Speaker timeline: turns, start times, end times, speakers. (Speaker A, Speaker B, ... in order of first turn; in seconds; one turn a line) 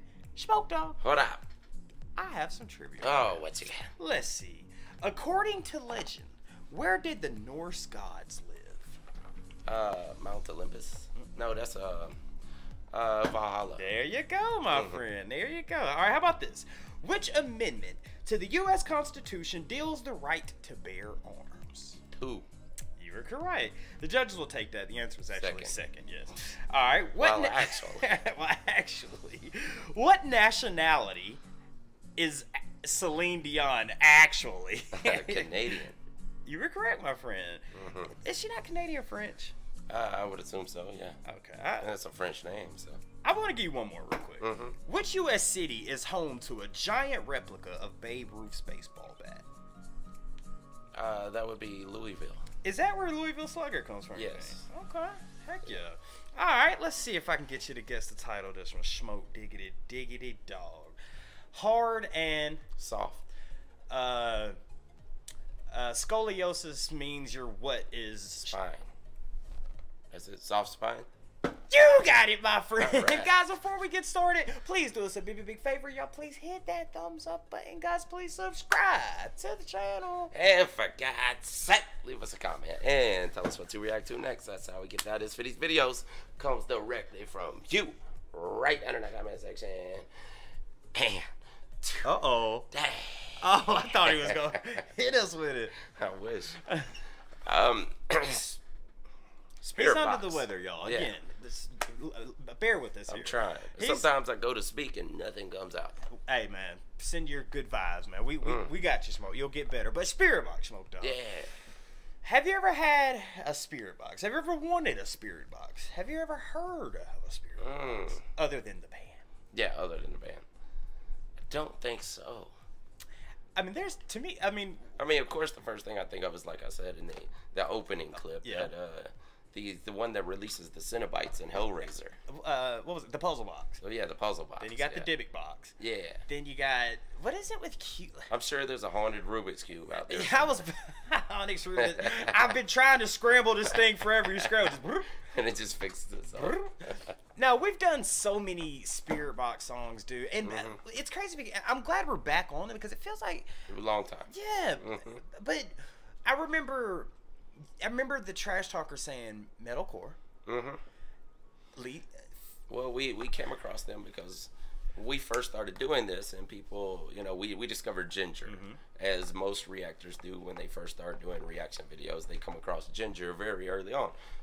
Speaker A: 0.3-1.0
Speaker B: 1.0-1.4
Speaker A: 2.2-9.0
Speaker B: 3.0-3.9
Speaker B: 9.7-12.2
Speaker B: 12.9-13.9
Speaker A: 13.8-22.0
Speaker B: 14.7-15.0
Speaker B: 22.1-22.5
Speaker A: 23.0-31.4
Speaker B: 25.4-25.8
Speaker B: 27.2-28.2
Speaker A: 32.2-35.8
Speaker B: 34.9-36.0
Speaker A: 36.5-39.5
Speaker B: 37.7-38.1
Speaker B: 39.9-41.2
Speaker A: 41.2-41.9
Speaker B: 41.8-43.0
Speaker A: 43.2-49.5
Speaker B: 44.4-44.8
Speaker B: 51.0-52.4
Speaker A: 52.6-61.0
Speaker B: 54.1-54.6
Speaker A: 61.5-62.6
Speaker B: 62.8-63.3
Speaker A: 63.9-64.5
Speaker A: 65.7-68.5
Speaker B: 68.5-68.9
Speaker B: 70.1-71.1
Speaker A: 71.7-80.3
Speaker B: 72.8-73.3
Speaker B: 80.3-90.1
Speaker B: 91.0-91.3
Speaker B: 91.8-92.1
Speaker A: 92.0-92.7
Speaker B: 92.7-94.8
Speaker A: 93.4-95.8
Speaker B: 95.8-96.6
Speaker B: 97.5-98.6
Speaker B: 99.6-101.1
Speaker A: 99.8-104.1
Speaker B: 103.1-106.0
Speaker A: 106.1-111.2
Speaker B: 108.4-108.7
Speaker B: 111.0-111.5
Speaker A: 112.2-119.2
Speaker B: 117.6-118.2
Speaker B: 119.5-120.5
Speaker B: 121.5-122.5
Speaker A: 123.6-124.9
Speaker B: 125.0-132.2
Speaker A: 128.4-128.7
Speaker A: 132.3-133.8
Speaker B: 133.8-135.1
Speaker A: 134.6-135.8
Speaker B: 135.8-136.2
Speaker A: 136.3-138.3
Speaker B: 138.3-140.7
Speaker A: 140.1-145.2
Speaker B: 141.8-142.5
Speaker B: 145.2-147.1
Speaker A: 146.3-153.5
Speaker B: 150.4-150.8
Speaker B: 153.7-155.2
Speaker A: 154.3-157.1
Speaker A: 157.8-160.2
Speaker B: 160.5-160.8
Speaker A: 161.8-162.3
Speaker B: 162.7-174.2
Speaker A: 168.5-168.8